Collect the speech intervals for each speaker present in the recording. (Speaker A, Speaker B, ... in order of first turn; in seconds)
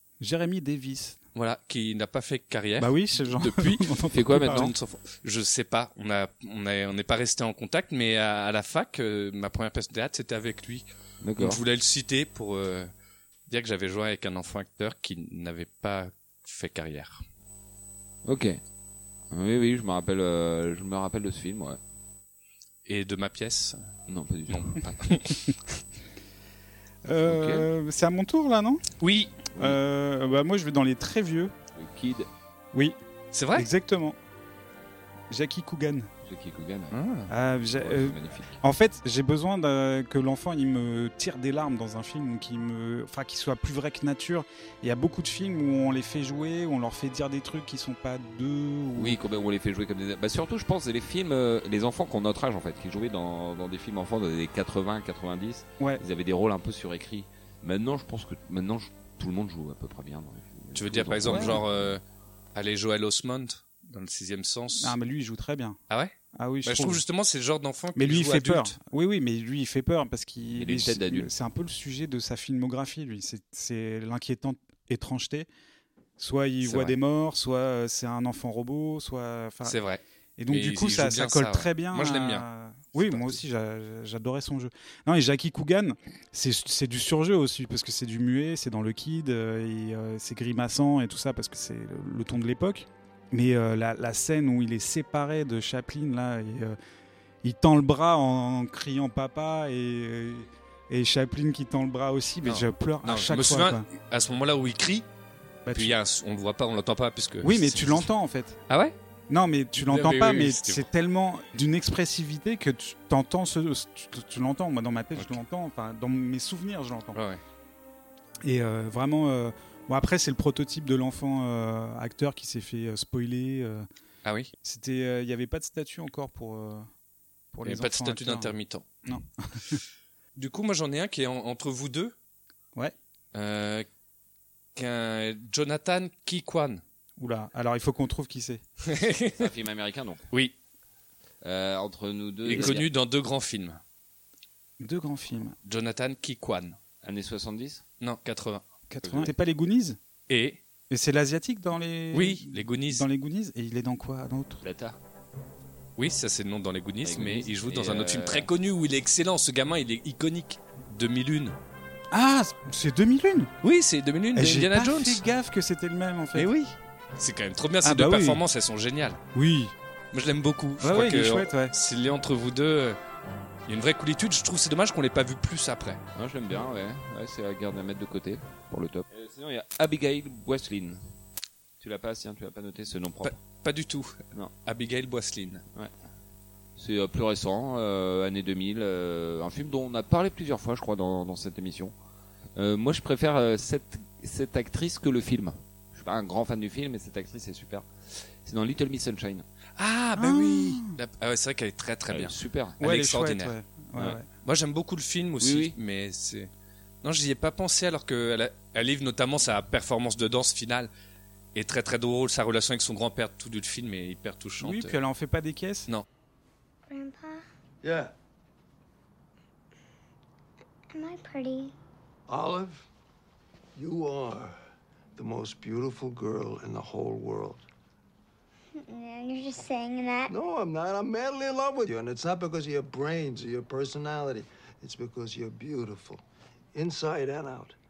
Speaker A: 0.2-1.2, 2.8-4.7, 27.0-28.8, 29.6-31.5, 33.5-34.1, 35.3-36.1, 37.3-49.2, 61.2-61.6, 64.8-65.8, 66.3-67.0, 67.9-75.5, 76.2-79.8, 80.4-96.8, 97.4-103.8, 105.7-106.0, 107.4-108.6, 109.3-117.2, 118.4-123.8, 124.6-126.9, 127.5-128.5, 129.1-129.8, 137.2-138.6, 144.8-145.6, 148.9-150.0, 150.9-154.6, 162.1-163.5, 164.3-166.5, 167.8-168.4, 169.3-169.7, 170.8-171.7, 200.2-200.9, 202.8-204.2, 214.6-215.9
Speaker B: 1.3-12.9, 13.5-17.2, 22.9-23.8, 24.5-25.5, 29.0-29.4, 33.3-33.7, 36.9-37.3, 60.7-62.0, 62.5-64.9, 65.9-68.8, 79.6-83.4, 102.4-105.0, 105.7-108.1, 108.7-108.9, 109.8-110.9, 117.1-117.4, 124.2-124.5, 127.6-128.9, 130.3-132.1, 133.3-133.8, 134.7-136.8, 138.8-139.5, 142.4-143.8, 145.7-146.8, 148.0-148.6, 150.3-150.6, 152.1-153.1, 156.0-161.6, 163.6-165.2, 166.3-169.2, 170.1-173.0, 173.7-176.0, 183.2-185.6, 199.8-203.5, 204.4-206.5, 207.0-210.9, 211.5-215.0
Speaker C: 4.1-4.7, 11.2-11.6, 18.2-18.6, 19.3-21.8, 24.1-25.2, 27.3-27.7, 29.5-29.8, 31.7-32.3, 36.2-37.0, 37.6-38.6, 48.9-61.9, 70.5-71.3, 76.6-77.0, 139.3-140.2, 141.4-142.9, 147.0-147.8, 149.0-149.3, 154.6-155.0, 157.0-158.5, 176.1-181.0, 181.8-183.3, 186.8-191.9, 192.6-199.4, 202.1-202.8, 205.4-205.8
Speaker D: 216.9-217.4, 220.9-221.7, 228.7-230.3
Speaker E: 217.8-218.1, 222.3-222.8, 223.8-224.6, 225.2-227.6, 230.3-236.2, 236.7-237.8